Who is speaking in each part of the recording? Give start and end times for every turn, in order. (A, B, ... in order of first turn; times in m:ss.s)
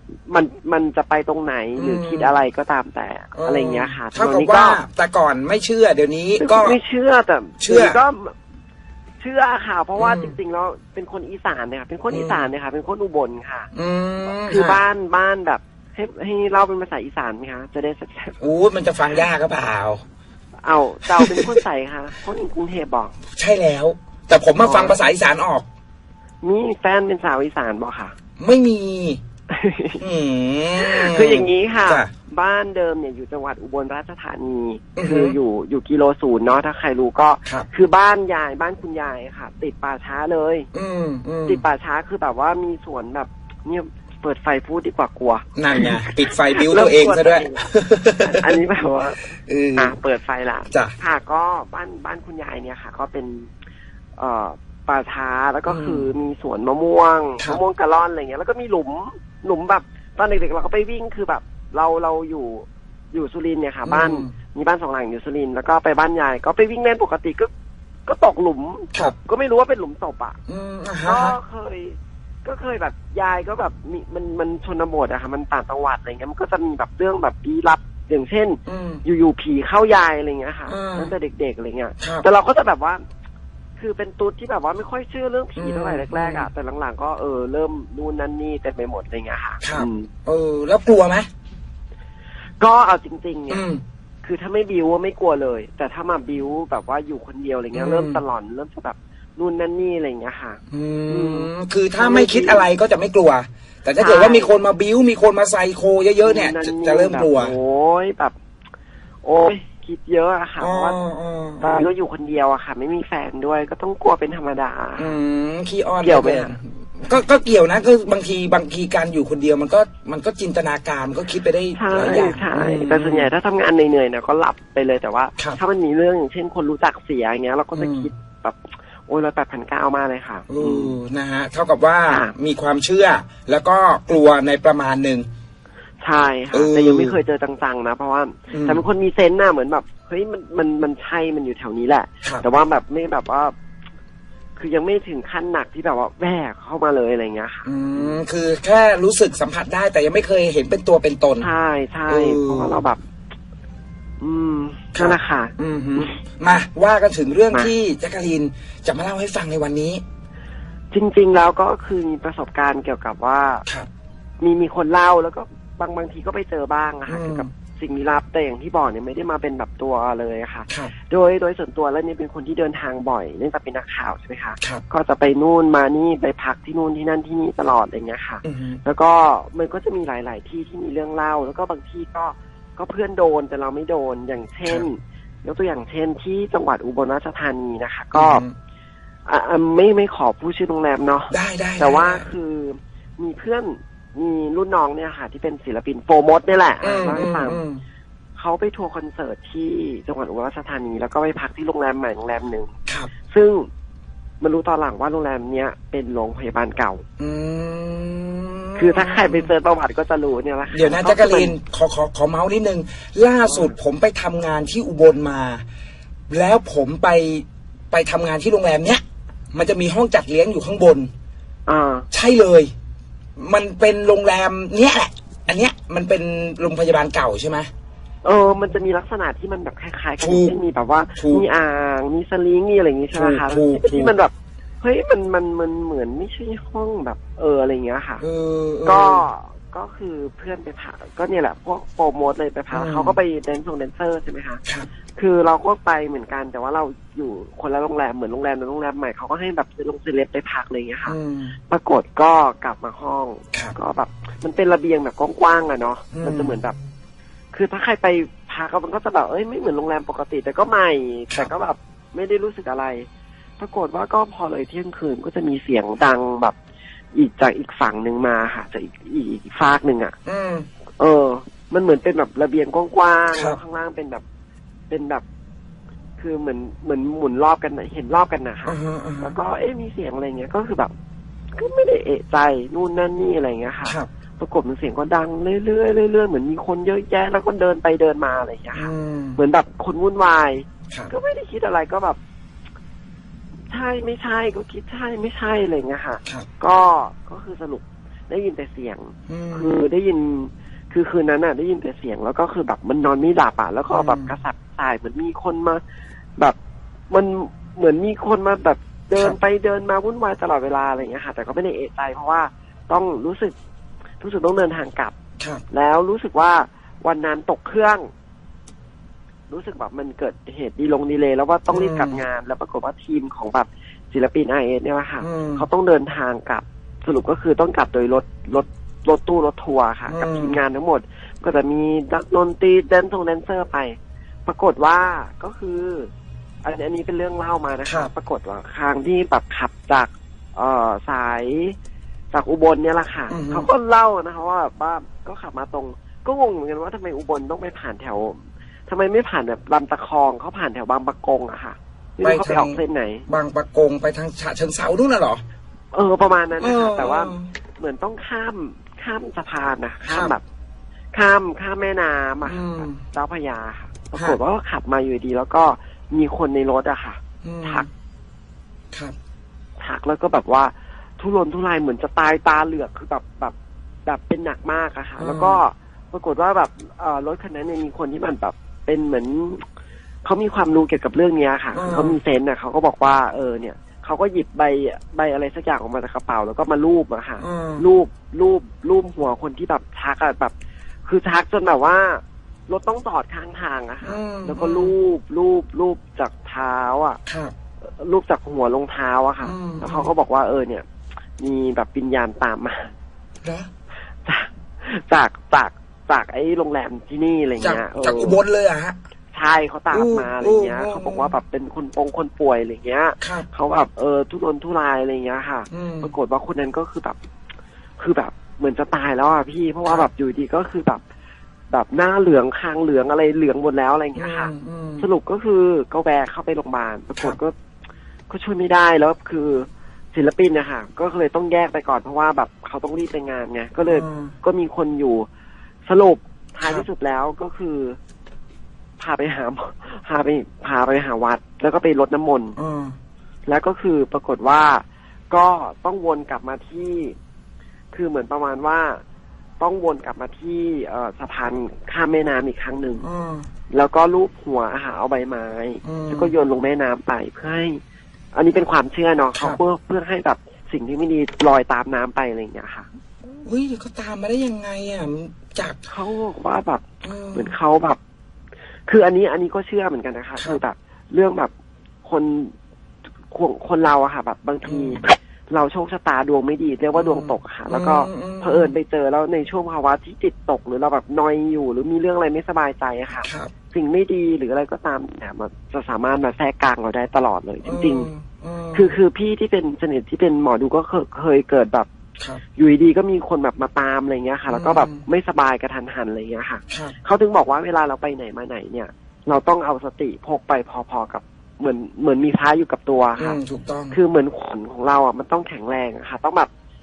0:00.3-0:04.8 A
0:01.8-0:02.3 B
0:03.4-0:06.8 B
0:06.4-0:08.4 A
0:07.6-0:08.0 B
0:09.2-0:13.7 A
0:10.0-0:10.4 B
0:12.1-0:12.5 B
0:13.7-0:14.8 B
0:14.3-0:18.4 A
0:18.4-0:20.0 B
0:20.6-0:23.1 A
0:21.1-0:21.5 B
0:23.3-0:25.7 B
0:24.6-0:25.0 A
0:26.4-0:28.1 A
0:28.4-0:29.2 B
0:29.5-0:30.0 A
0:30.0-0:32.1 B
0:30.8-0:40.7 A
0:35.0-0:35.4 B
0:40.7-0:41.6 B
0:41.5-0:47.7 A
0:45.6-0:48.6 B
0:48.2-0:53.5 A
0:49.4-0:50.0 B
0:54.2-1:07.5 A
0:55.7-0:56.0 B
1:03.9-1:04.3 B
1:08.1-1:10.4 A
1:10.5-1:11.4 B
1:11.0-1:23.0 A
1:18.7-1:19.0 B
1:20.7-1:21.1 B
1:22.0-1:22.2 B
1:23.8-1:30.1 A
1:25.6-1:26.5 B
1:29.6-1:31.3 B
1:32.6-1:33.6 A
1:33.5-1:33.8 B
1:34.2-1:42.7 A
1:37.7-1:38.2 B
1:40.7-1:47.5 B
1:44.0-1:44.5 A
1:46.2-1:48.4 A
1:49.2-1:51.0 A
1:50.6-1:51.9 B
1:51.6-1:55.2 A
1:55.0-2:03.3 B
1:56.0-1:56.6 A
2:01.8-2:11.0 A
2:07.7-2:08.1 B
2:10.5-2:15.3 B
2:16.0-2:23.5 A
2:16.5-2:17.2 B
2:18.5-2:18.8 B
2:24.6-2:28.2 A
2:27.6-2:31.5 B
2:31.4-2:33.0 A
2:32.1-2:32.8 B
2:34.2-2:36.2 A
2:35.0-2:40.0 B
2:40.9-2:43.6 A
2:44.4-3:08.4 A
2:47.1-2:47.5 B
2:58.4-2:58.8 B
3:08.2-3:08.5 B
3:09.3-3:17.6 A
3:11.3-3:12.3 B
3:16.8-3:17.8 B
3:18.4-3:22.7 A
3:23.3-3:23.7 A
3:24.4-3:27.0 A
3:27.2-3:29.5 B
3:28.8-3:31.6 A
3:30.7-3:35.6 B
3:33.5-3:33.8 A
3:36.3-3:41.1 B
3:41.7-3:42.1 A
3:42.1-3:42.7 B
3:43.4-3:47.7 B
3:48.2-3:58.2 A
3:50.2-3:50.6 B
3:51.2-3:51.4 B
3:53.1-3:54.2 B
3:58.2-3:59.2 B
3:58.9-4:04.6 A
4:02.7-4:03.2 B
4:05.2-4:11.2 A
4:11.1-4:11.6 B
4:11.7-4:16.8 A
4:16.1-4:16.6 B
4:17.5-4:23.1 A
4:23.6-4:26.6 A
4:27.1-4:30.2 A
4:30.3-4:30.7 B
4:31.0-4:34.2 A
4:33.3-4:33.6 B
4:34.9-4:35.2 A
4:36.2-4:40.9 A
4:38.7-4:39.4 B
4:41.5-4:52.2 A
4:48.7-4:49.4 B
4:53.7-5:05.8 A
4:59.3-4:59.9 B
5:03.9-5:04.3 B
5:07.1-5:13.5 A
5:14.2-5:15.1 A
5:15.7-5:18.1 A
5:19.5-5:36.1 A
5:21.7-5:22.2 B
5:25.2-5:25.6 B
5:30.1-5:30.6 B
5:36.6-5:41.8 A
5:42.3-5:53.2 A
5:43.3-5:43.7 B
5:52.2-5:52.8 B
5:53.3-5:55.4 B
5:55.9-6:00.4 A
5:56.6-5:57.5 B
6:00.1-6:00.4 B
6:01.1-6:07.9 A
6:02.4-6:03.0 B
6:07.4-6:07.9 B
6:09.8-6:13.6 A
6:14.1-6:19.6 A
6:15.2-6:15.6 B
6:20.2-6:30.5 A
6:21.7-6:22.2 B
6:27.4-6:27.8 B
6:31.1-6:37.2 A
6:34.0-6:34.9 B
6:37.3-6:37.5 B
6:37.8-6:40.9 A
6:39.4-6:40.1 B
6:41.4-6:42.9 A
6:43.4-6:43.7 B
6:44.2-6:48.4 A
6:47.6-6:49.0 B
6:49.3-6:57.2 A
6:49.9-6:51.3 B
6:53.2-6:53.5 B
6:55.7-6:56.1 B
6:58.0-7:01.0 A
7:01.7-7:07.6 A
7:04.2-7:05.1 B
7:08.3-7:15.3 A
7:13.8-7:14.4 B
7:15.9-7:18.0 A
7:19.0-7:22.6 A
7:22.6-7:23.0 B
7:23.5-7:27.2 A
7:27.9-7:29.0 A
7:29.6-7:33.0 A
7:33.0-7:33.5 B
7:33.7-7:37.8 A
7:35.8-7:36.3 B
7:38.4-7:42.9 A
7:43.4-7:45.8 B
7:45.9-7:48.0 A
7:47.0-7:47.5 B
7:48.9-7:51.5 A
7:52.0-7:52.5 A
7:53.3-8:08.1 A
7:54.7-7:55.0 B
7:56.9-7:58.7 B
8:03.2-8:03.5 B
8:07.6-8:08.9 B
8:08.7-8:11.9 A
8:12.6-8:23.4 A
8:14.5-8:15.0 B
8:16.7-8:17.0 B
8:23.2-8:24.0 B
8:23.9-8:26.5 A